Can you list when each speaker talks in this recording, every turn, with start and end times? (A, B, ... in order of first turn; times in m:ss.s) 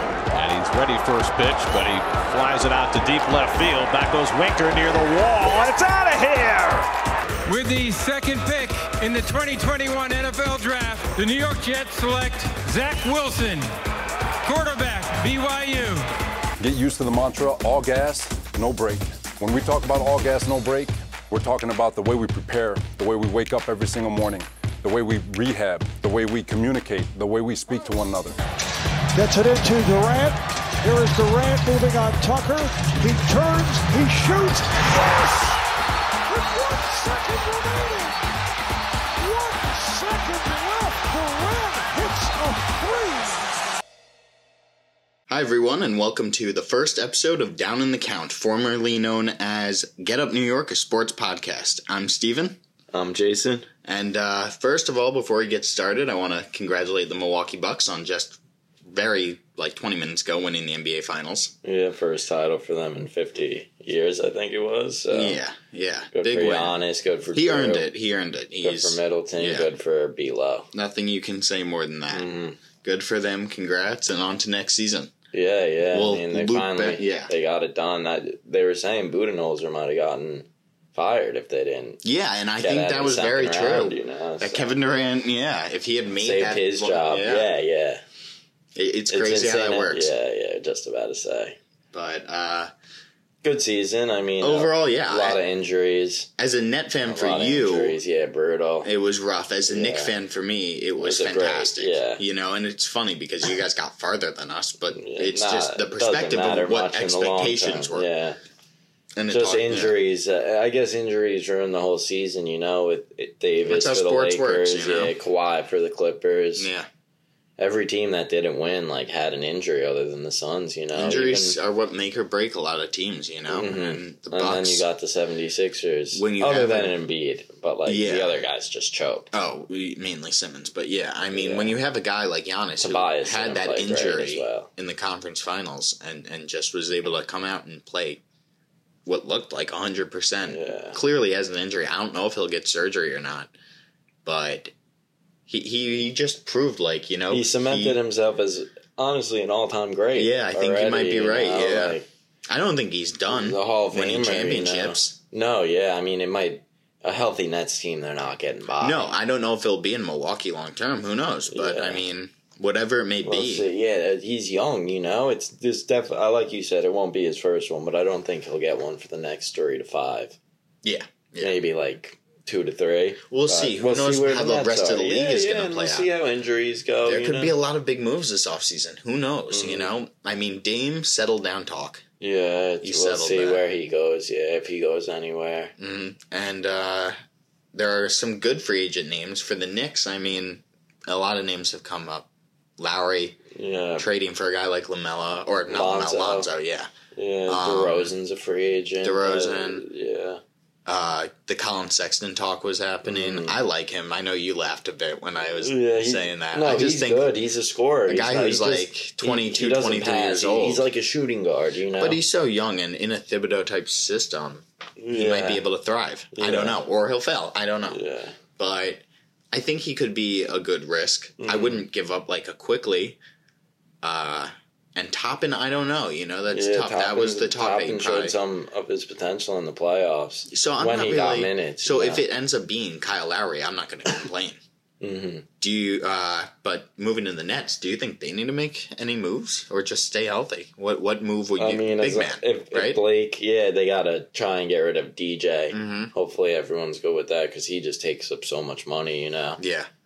0:00.3-0:06.9 A
0:07.5-0:13.7 B
0:14.4-0:16.1 B
0:16.6-0:28.4 C
0:29.1-0:35.6 D
0:36.3-0:38.3 D
0:39.2-0:43.4 D
0:45.3-0:52.6 E
0:52.9-0:53.7 F
0:53.8-1:01.5 E
1:01.6-1:05.4 F
1:05.1-1:06.8 E
1:06.1-1:07.9 F
1:07.3-1:09.7 E
1:08.6-1:10.7 F
1:10.7-1:12.3 E
1:12.1-1:12.6 F
1:12.8-1:15.1 E
1:15.3-1:22.0 F
1:15.9-1:17.3 E
1:22.0-1:27.5 E
1:22.6-1:24.8 F
1:26.2-1:28.0 F
1:28.8-1:30.1 E
1:29.1-1:31.6 F
1:31.9-1:32.7 E
1:33.4-1:36.3 F
1:34.4-1:35.4 E
1:36.4-1:38.0 E
1:37.1-1:38.9 F
1:38.8-1:48.1 E
1:39.7-1:40.2 F
1:41.0-1:42.2 F
1:44.9-1:48.4 F
1:49.2-1:50.0 E
1:49.3-1:56.7 F
1:53.6-1:55.2 E
1:56.6-1:56.9 E
1:57.6-2:01.6 F
2:01.0-2:04.8 E
2:03.5-2:09.3 F
2:06.2-2:07.0 E
2:07.8-2:08.4 E
2:09.3-2:18.2 E
2:11.3-2:11.8 F
2:12.8-2:14.7 F
2:19.1-2:23.5 E
2:20.5-2:21.0 F
2:24.2-2:24.7 E
2:25.5-2:28.0 E
2:27.3-2:32.1 F
2:30.1-2:35.2 E
2:33.3-2:39.1 F
2:38.8-2:43.7 E
2:41.5-2:42.0 F
2:43.3-2:50.4 F
2:50.8-2:51.6 E
2:51.4-2:57.6 F
2:53.3-2:56.1 E
2:57.0-3:02.0 E
2:59.5-2:59.9 F
3:02.2-3:05.7 F
3:02.8-3:03.6 E
3:05.8-3:07.2 E
3:07.7-3:12.3 E
3:12.8-3:13.4 E
3:13.5-3:14.1 F
3:14.0-3:16.9 E
3:15.7-3:16.5 F
3:17.1-3:20.4 F
3:17.5-3:18.1 E
3:19.0-3:19.8 E
3:20.9-3:27.3 E
3:23.0-3:23.6 F
3:25.5-3:32.2 F
3:28.1-3:30.9 E
3:32.0-3:38.0 E
3:35.0-3:35.6 F
3:36.3-3:36.8 F
3:37.9-3:38.4 F
3:38.6-3:43.2 E
3:41.4-3:41.8 F
3:44.0-3:48.4 E
3:46.5-3:52.2 F
3:50.5-3:54.6 E
3:55.0-3:55.5 F
3:55.6-4:03.0 E
4:01.6-4:09.6 F
4:05.7-4:06.1 E
4:09.6-4:09.9 E